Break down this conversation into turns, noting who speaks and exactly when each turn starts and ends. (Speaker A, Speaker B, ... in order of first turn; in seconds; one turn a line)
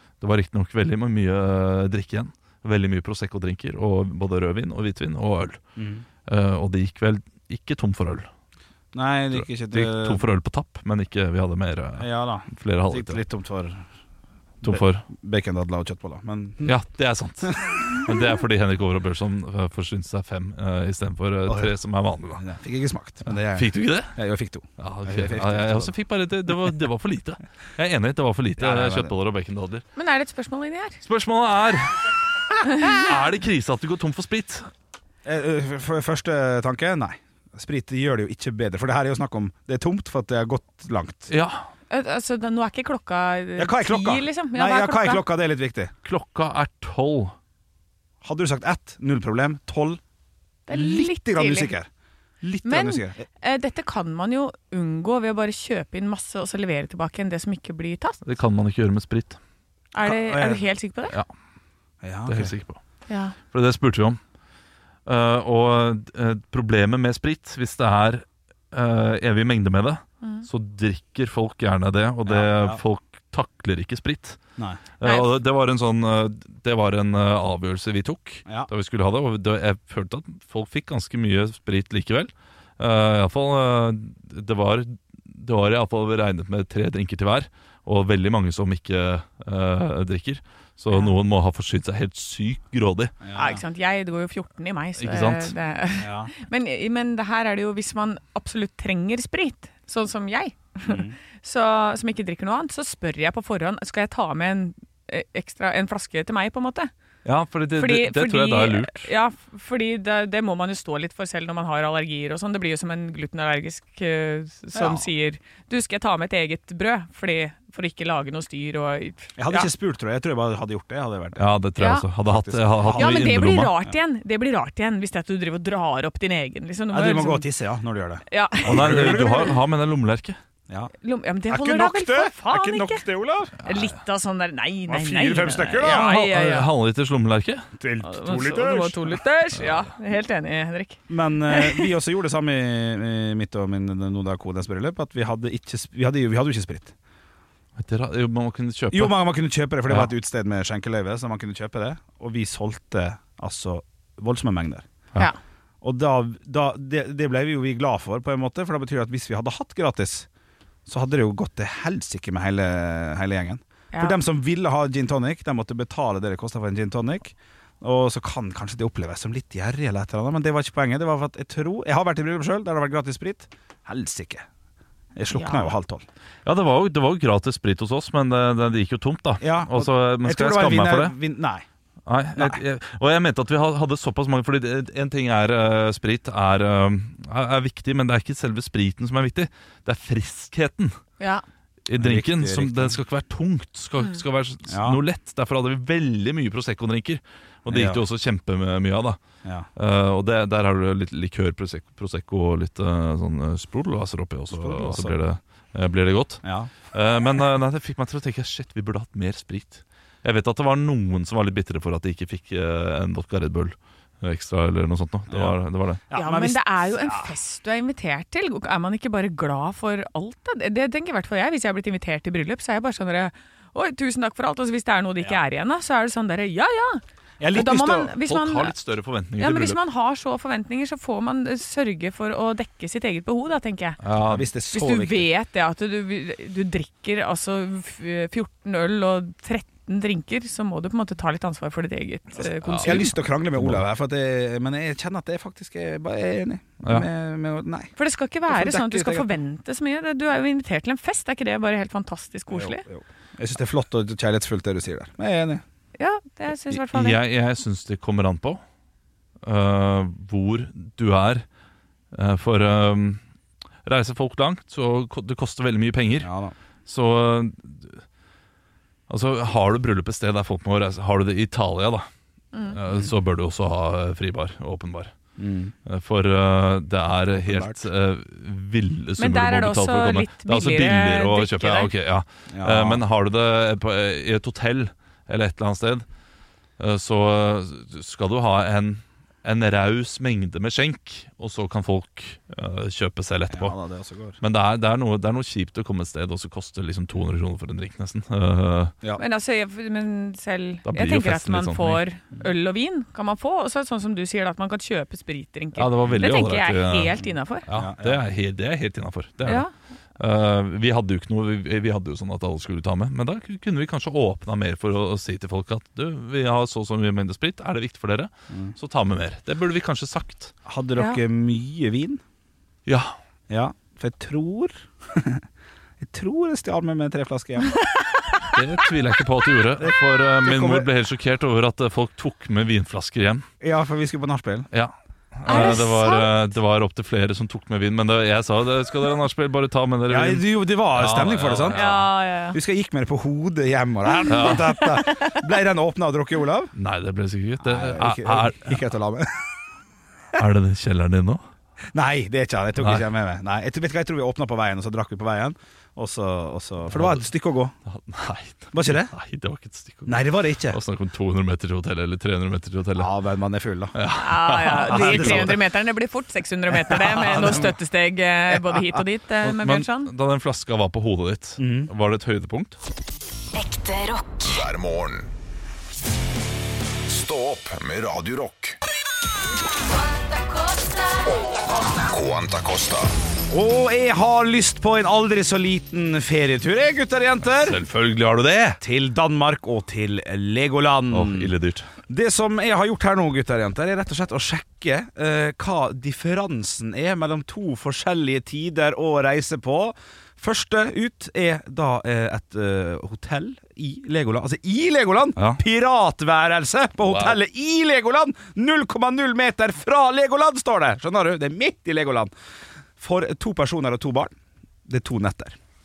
Speaker A: 0.2-5.6
Speaker B: 5.8-6.0
Speaker A: 6.3-8.3
Speaker B: 8.9-10.2
Speaker A: 9.3-13.2
Speaker B: 12.0-13.8
Speaker B: 14.6-16.8
Speaker A: 14.6-15.0
Speaker A: 16.6-22.4
Speaker B: 17.4-17.8
Speaker B: 21.4-21.7
Speaker B: 22.4-25.9
Speaker A: 23.5-24.2
Speaker A: 24.8-29.8
Speaker B: 28.6-29.1
Speaker C: 29.9-31.0
Speaker A: 31.0-32.0
Speaker A: 32.8-34.7
Speaker B: 35.2-41.3
Speaker A: 41.3-41.6
Speaker C: 41.9-45.2
Speaker B: 43.5-45.9
Speaker A: 46.0-47.3
Speaker B: 48.2-50.0
Speaker C: 50.7-51.7
Speaker B: 50.7-51.9
Speaker B: 52.4-53.2
Speaker C: 52.6-58.2
Speaker A: 58.2-59.4
Speaker C: 59.9-61.2
Speaker B: 60.0-60.6
Speaker B: 62.0-62.5
Speaker A: 62.2-62.8
Speaker C: 63.1-63.4
Speaker A: 63.5-64.2
Speaker A: 65.0-74.4
Speaker C: 70.2-70.5
Speaker B: 72.2-72.8
Speaker B: 74.6-74.8
Speaker A: 75.0-93.1
Speaker C: 75.0-75.3
Speaker B: 93.2-93.6
Speaker C: 93.3-106.9
Speaker A: 95.0-95.5
Speaker B: 96.0-96.3
Speaker B: 100.8-101.1
Speaker A: 107.2-109.1
Speaker C: 107.8-119.7
Speaker B: 114.7-115.0
Speaker B: 119.4-121.5
Speaker A: 121.4-123.7
Speaker C: 121.8-122.0
Speaker B: 122.2-123.3
Speaker C: 122.9-127.5
Speaker B: 126.9-129.6
Speaker C: 128.3-129.6
Speaker A: 128.6-130.4
Speaker C: 131.0-133.0
Speaker B: 131.5-133.6
Speaker C: 133.6-136.7
Speaker B: 134.9-136.1
Speaker A: 135.8-137.7
Speaker B: 137.8-139.2
Speaker C: 138.0-141.0
Speaker B: 141.1-146.9
Speaker C: 141.5-141.9
Speaker A: 147.8-149.2
Speaker B: 148.9-154.9
Speaker B: 155.8-160.3
Speaker B: 160.8-174.5
Speaker B: 175.2-176.0
Speaker C: 175.3-175.7
Speaker A: 176.4-181.1
Speaker B: 179.4-181.6
Speaker A: 182.1-191.0
Speaker B: 182.3-182.6
Speaker A: 191.9-199.2
Speaker B: 192.0-193.0
Speaker B: 194.7-195.0
Speaker B: 197.7-198.0
Speaker A: 199.8-216.0
Speaker B: 204.5-205.2
Speaker B: 206.4-206.7
Speaker B: 215.3-215.6
Speaker B: 216.1-217.3
Speaker C: 216.1-227.0
Speaker B: 227.4-228.2
Speaker C: 227.5-228.7
Speaker A: 228.2-229.8
Speaker C: 229.4-234.0
Speaker A: 234.0-234.5
Speaker B: 234.2-235.3
Speaker C: 234.7-243.1
Speaker B: 242.4-247.9
Speaker A: 242.6-243.0
Speaker A: 243.6-243.8
Speaker C: 248.0-252.8
Speaker B: 248.5-249.3
Speaker B: 252.5-255.6
Speaker C: 256.0-257.2
Speaker A: 256.7-258.6
Speaker A: 259.4-261.4
Speaker A: 262.1-263.2
Speaker A: 263.8-266.3
Speaker B: 266.2-266.5
Speaker A: 266.9-268.0
Speaker A: 269.1-272.1
Speaker A: 272.7-275.1
Speaker B: 275.4-275.7
Speaker A: 275.9-286.0
Speaker B: 277.3-277.8
Speaker C: 279.2-281.9
Speaker B: 282.5-283.0
Speaker A: 286.8-293.7
Speaker B: 293.5-294.4
Speaker A: 294.4-298.9
Speaker C: 299.2-307.6
Speaker A: 300.9-302.0
Speaker A: 305.8-309.6
Speaker B: 307.7-308.2
Speaker C: 309.4-309.7
Speaker A: 310.2-320.5
Speaker B: 318.5-318.7
Speaker B: 320.6-322.2
Speaker C: 321.0-321.2
Speaker A: 322.9-323.1
Speaker B: 323.5-325.4
Speaker B: 326.0-327.7
Speaker C: 327.9-328.5
Speaker A: 328.5-333.4
Speaker B: 329.8-330.9
Speaker B: 333.6-334.7
Speaker A: 334.7-342.1
Speaker C: 335.4-336.3
Speaker B: 340.1-342.0
Speaker C: 341.7-342.6
Speaker B: 342.5-346.7
Speaker A: 344.3-344.9
Speaker C: 344.3-345.5
Speaker A: 346.8-348.8
Speaker B: 347.6-349.4
Speaker A: 350.3-351.4
Speaker B: 351.9-357.7
Speaker A: 352.8-353.0
Speaker A: 356.9-357.2
Speaker A: 357.9-363.1
Speaker B: 358.7-359.1
Speaker B: 360.1-360.8
Speaker B: 362.9-363.9
Speaker A: 363.9-365.6
Speaker C: 364.2-370.1
Speaker B: 364.9-365.6
Speaker B: 366.9-367.7
Speaker B: 368.5-369.0
Speaker A: 369.4-372.8
Speaker B: 371.6-371.9
Speaker D: 373.6-375.3
Speaker D: 377.1-378.8
Speaker D: 381.9-383.1
Speaker B: 383.5-387.8
Speaker A: 387.6-388.8
Speaker B: 388.8-391.5
Speaker A: 391.1-391.9
Speaker B: 392.1-412.3
Speaker A: 407.0-407.4
Speaker B: 413.0-414.3
Speaker B: 414.9-415.6